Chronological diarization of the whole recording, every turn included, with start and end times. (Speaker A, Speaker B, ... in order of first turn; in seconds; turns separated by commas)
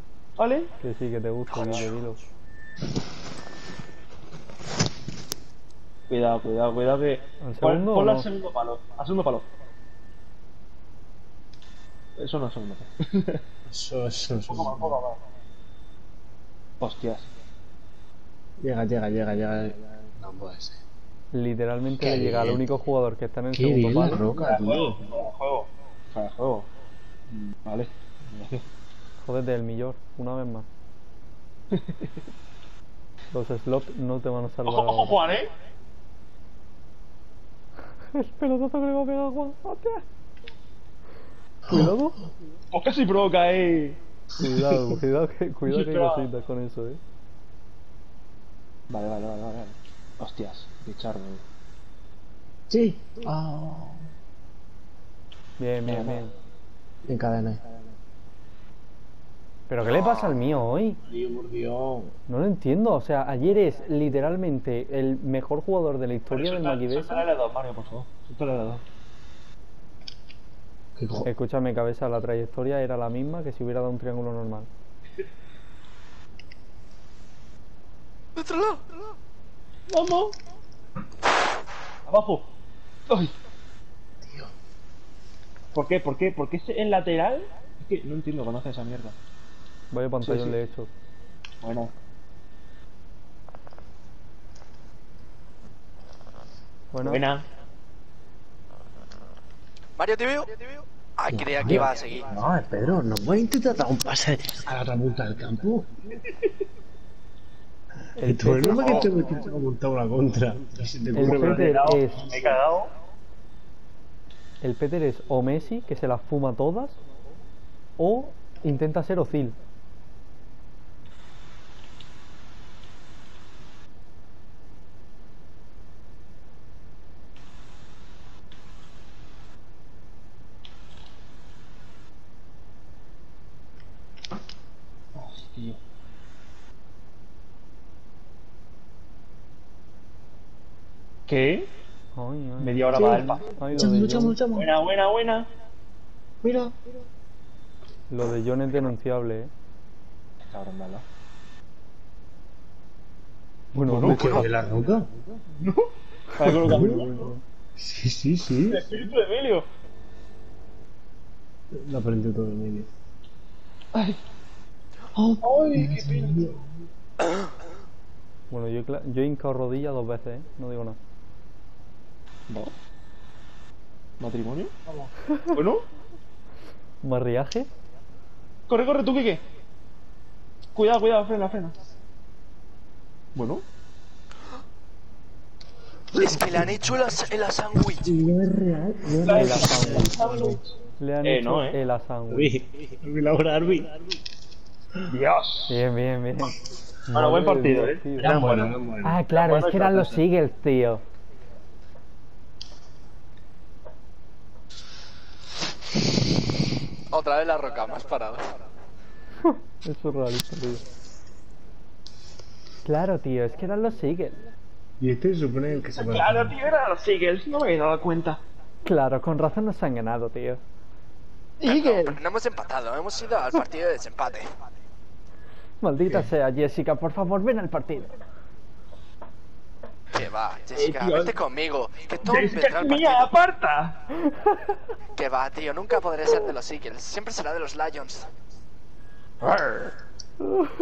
Speaker A: 0.4-0.7, Speaker B: 0.8-2.2, Speaker A: 6.1-9.5, Speaker B: 7.4-8.3, Speaker A: 12.2-13.4, Speaker C: 13.7-15.0, Speaker A: 14.5-15.2, Speaker A: 16.8-17.3, Speaker C: 18.6-20.8, Speaker B: 21.3-24.2, Speaker C: 22.0-22.6, Speaker C: 23.5-25.0, Speaker A: 24.0-26.7, Speaker A: 27.3-28.6, Speaker B: 29.2-30.7, Speaker A: 31.7-32.1, Speaker B: 33.3-35.2, Speaker A: 34.6-35.5, Speaker B: 38.1-40.0, Speaker B: 41.7-42.2, Speaker A: 42.7-44.0, Speaker B: 44.4-47.0, Speaker A: 45.7-46.3, Speaker A: 48.9-51.4, Speaker C: 52.7-53.4, Speaker A: 53.3-54.0, Speaker B: 55.6-56.3, Speaker A: 55.8-56.2, Speaker C: 57.0-57.8, Speaker B: 59.7-61.0, Speaker D: 59.8-60.4, Speaker C: 61.0-62.1, Speaker B: 62.3-67.3, Speaker A: 66.3-68.8, Speaker C: 71.0-71.3, Speaker B: 71.2-74.7, Speaker D: 78.4-78.9, Speaker A: 79.9-80.3, Speaker A: 82.0-82.5, Speaker A: 83.1-83.3, Speaker C: 84.2-84.5, Speaker A: 85.7-89.1, Speaker B: 89.9-90.9, Speaker A: 90.2-90.6, Speaker A: 91.6-91.9, Speaker B: 96.9-97.3, Speaker A: 97.0-97.5, Speaker D: 100.0-102.2, Speaker C: 101.3-106.0, Speaker B: 108.2-109.1, Speaker C: 108.2-112.6, Speaker D: 108.7-109.0, Speaker B: 111.1-112.3, Speaker A: 111.2-112.9, Speaker B: 114.6-117.0, Speaker B: 118.0-119.5, Speaker A: 135.1-135.8, Speaker A: 141.3-141.7, Speaker B: 142.1-144.4, Speaker A: 142.6-145.5, Speaker C: 142.9-144.7, Speaker C: 146.4-146.8, Speaker B: 148.1-149.5, Speaker A: 150.4-151.0, Speaker B: 153.7-154.5, Speaker A: 153.9-157.3, Speaker C: 153.9-155.1, Speaker C: 156.4-159.0, Speaker B: 156.5-157.4, Speaker A: 158.7-159.7, Speaker C: 161.7-162.9, Speaker A: 163.9-164.2, Speaker C: 165.1-166.6, Speaker A: 165.4-166.6, Speaker B: 168.5-171.0, Speaker A: 174.2-174.7, Speaker A: 175.5-175.8, Speaker B: 177.0-177.7, Speaker A: 178.7-179.4, Speaker A: 180.8-181.8, Speaker A: 183.3-183.6, Speaker D: 186.1-188.0, Speaker C: 188.0-190.6, Speaker A: 189.2-191.8, Speaker B: 189.3-190.2, Speaker B: 191.0-192.5, Speaker C: 192.3-194.0, Speaker A: 195.1-195.8, Speaker B: 195.7-198.4, Speaker A: 197.1-198.8, Speaker C: 198.2-199.2, Speaker B: 199.0-201.0, Speaker A: 199.3-200.2, Speaker D: 207.1-208.5, Speaker B: 209.4-210.8, Speaker B: 212.8-214.4, Speaker C: 215.0-216.6, Speaker A: 215.9-218.4, Speaker B: 218.8-220.6, Speaker A: 221.6-222.2, Speaker D: 221.6-224.5, Speaker B: 225.8-228.1, Speaker D: 230.1-233.3, Speaker A: 230.8-231.4, Speaker A: 232.2-234.0, Speaker D: 235.2-238.3, Speaker A: 239.4-239.9